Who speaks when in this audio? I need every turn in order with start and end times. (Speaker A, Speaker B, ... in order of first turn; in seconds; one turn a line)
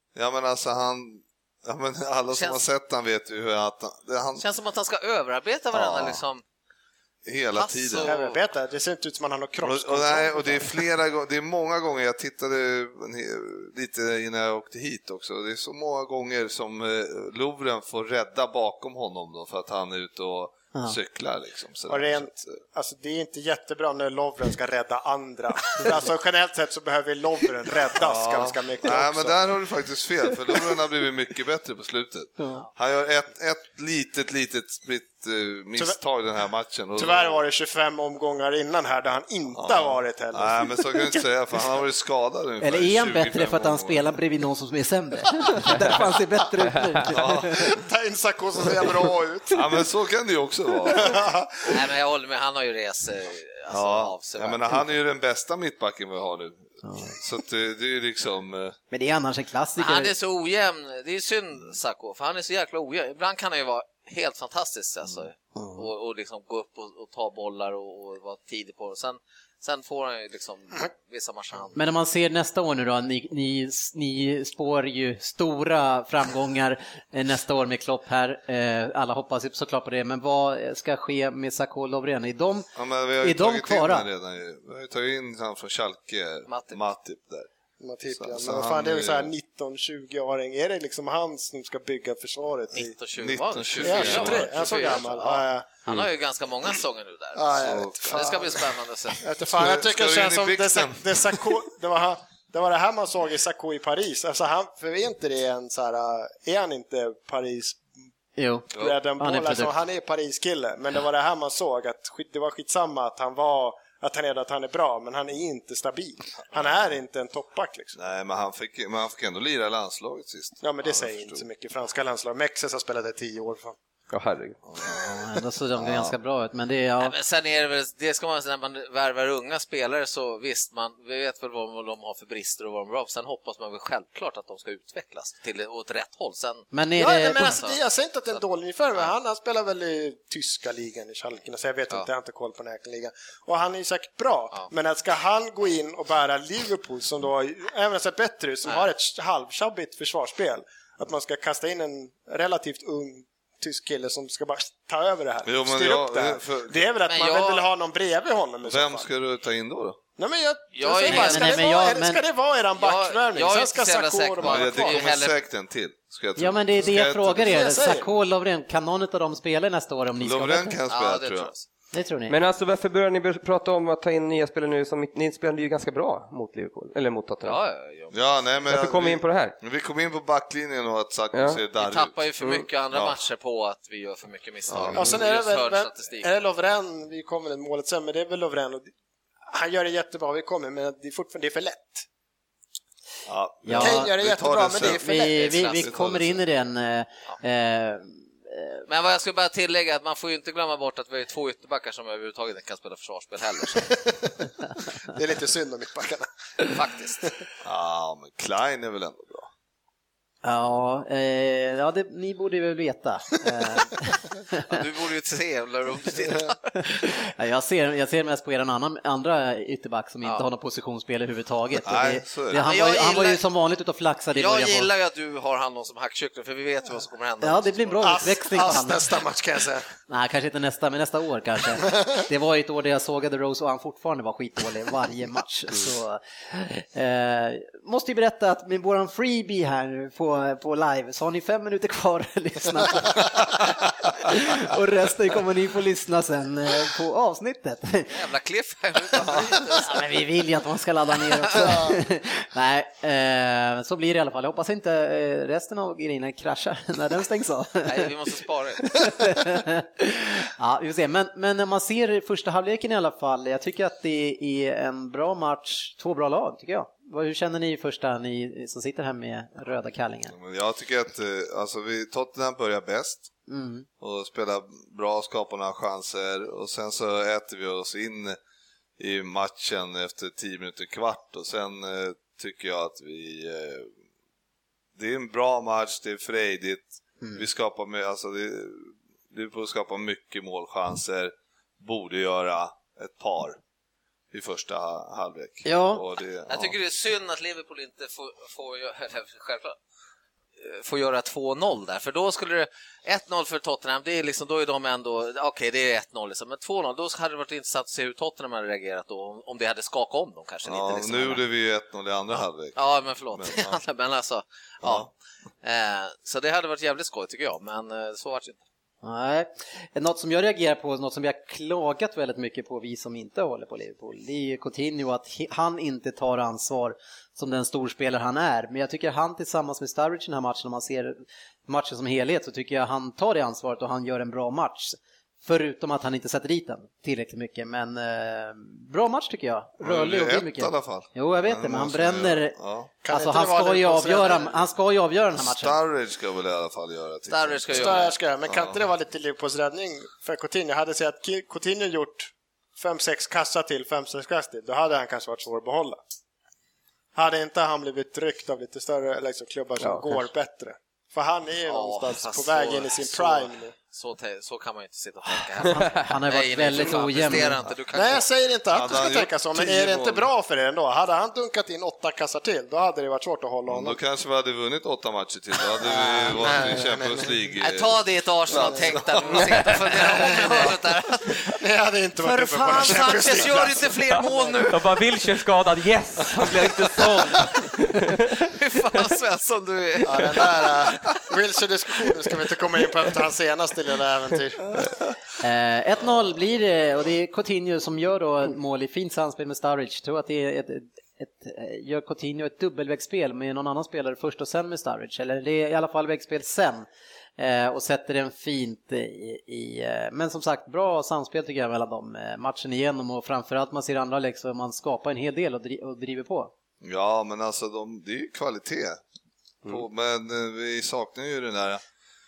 Speaker A: 0.1-4.4
Speaker B: 2.3-2.6
Speaker B: 4.4-6.4
Speaker A: 5.7-6.2
Speaker A: 7.2-8.1
Speaker B: 7.5-8.4
Speaker C: 8.0-10.8
Speaker A: 9.6-22.6
Speaker C: 21.9-29.4
Speaker A: 28.0-37.4
Speaker C: 36.9-41.2
Speaker A: 39.5-44.0
Speaker D: 42.6-47.7
Speaker E: 45.7-46.0
Speaker A: 47.1-47.8
Speaker C: 47.5-49.7
Speaker A: 49.5-51.3
Speaker C: 50.9-51.6
Speaker B: 51.6-54.6
Speaker A: 53.7-58.8
Speaker D: 56.9-57.1
Speaker D: 58.9-60.1
Speaker B: 59.8-71.8
Speaker D: 65.5-65.8
Speaker D: 71.7-82.7
Speaker A: 82.7-87.5
Speaker D: 83.2-84.0
Speaker B: 86.5-86.8
Speaker C: 87.8-92.9
Speaker A: 88.1-89.3
Speaker B: 92.7-99.2
Speaker A: 93.1-95.0
Speaker C: 93.8-95.7
Speaker C: 97.3-98.6
Speaker A: 97.6-98.5
Speaker C: 99.2-107.8
Speaker A: 99.4-101.5
Speaker D: 108.4-109.7
Speaker C: 108.7-118.0
Speaker A: 108.7-109.0
Speaker A: 117.9-121.4
Speaker C: 120.6-123.8
Speaker E: 124.1-124.6
Speaker A: 124.7-125.2
Speaker D: 124.9-127.1
Speaker A: 125.8-126.1
Speaker B: 127.0-136.7
Speaker D: 136.7-137.6
Speaker C: 137.0-159.0
Speaker B: 137.4-137.8
Speaker A: 155.4-156.9
Speaker B: 157.1-157.7
Speaker A: 158.6-160.0
Speaker C: 160.2-165.0
Speaker B: 160.8-161.6
Speaker D: 161.1-162.2
Speaker B: 162.8-165.4
Speaker A: 164.4-167.7
Speaker D: 166.4-170.8
Speaker C: 167.4-168.1
Speaker A: 170.2-171.5
Speaker B: 170.9-171.7
Speaker D: 171.9-172.3
Speaker E: 172.3-177.6
Speaker B: 177.4-178.3
Speaker A: 178.1-182.2
Speaker E: 178.7-179.5
Speaker E: 181.3-181.6
Speaker B: 181.8-186.3
Speaker E: 182.4-182.7
Speaker A: 182.9-183.2
Speaker A: 184.7-185.1
Speaker C: 184.9-188.9
Speaker C: 189.5-192.1
Speaker A: 193.3-195.1
Speaker D: 193.6-194.1
Speaker C: 193.8-195.7
Speaker D: 194.8-198.8
Speaker B: 195.3-195.8
Speaker A: 195.7-196.4
Speaker B: 198.9-203.9
Speaker C: 203.8-204.3
Speaker C: 205.1-206.3
Speaker B: 206.6-207.3
Speaker A: 207.6-209.5
Speaker D: 210.4-214.6
Speaker B: 214.6-216.7
Speaker D: 216.8-224.9
Speaker A: 221.8-222.7
Speaker B: 222.5-223.4
Speaker B: 224.3-228.3
Speaker D: 227.4-229.1
Speaker C: 228.0-229.8
Speaker D: 230.1-248.2
Speaker B: 248.1-250.1
Speaker D: 249.7-258.1
Speaker B: 251.3-251.9
Speaker B: 257.8-259.0
Speaker D: 258.8-270.3
Speaker A: 270.3-273.3
Speaker D: 273.5-273.9
Speaker A: 274.0-278.4
Speaker A: 279.0-283.9
Speaker A: 284.9-293.6
Speaker A: 294.3-296.8
Speaker D: 295.6-296.0
Speaker B: 296.5-299.8
Speaker B: 300.6-311.4
Speaker A: 310.6-312.8
Speaker B: 312.7-315.1
Speaker A: 313.3-313.8
Speaker A: 314.8-315.1
Speaker B: 315.6-318.6
Speaker D: 319.0-342.6
Speaker A: 339.8-342.9
Speaker C: 343.0-344.6
Speaker D: 343.1-345.8
Speaker A: 345.4-348.8
Speaker B: 347.3-348.1
Speaker C: 347.7-356.0
Speaker C: 357.1-363.7
Speaker B: 361.6-368.3
Speaker D: 365.6-367.6
Speaker C: 367.9-374.0
Speaker A: 368.7-370.3
Speaker A: 373.7-377.9
Speaker C: 376.0-377.4
Speaker B: 377.6-381.6
Speaker A: 378.5-379.7
Speaker E: 379.4-379.7
Speaker C: 380.0-380.8
Speaker C: 381.5-384.5
Speaker B: 382.2-384.8
Speaker E: 384.2-388.5
Speaker B: 388.4-391.2
Speaker C: 390.0-394.6
Speaker D: 395.4-406.9
Speaker D: 407.4-416.5
Speaker A: 416.8-419.0
Speaker A: 419.6-421.8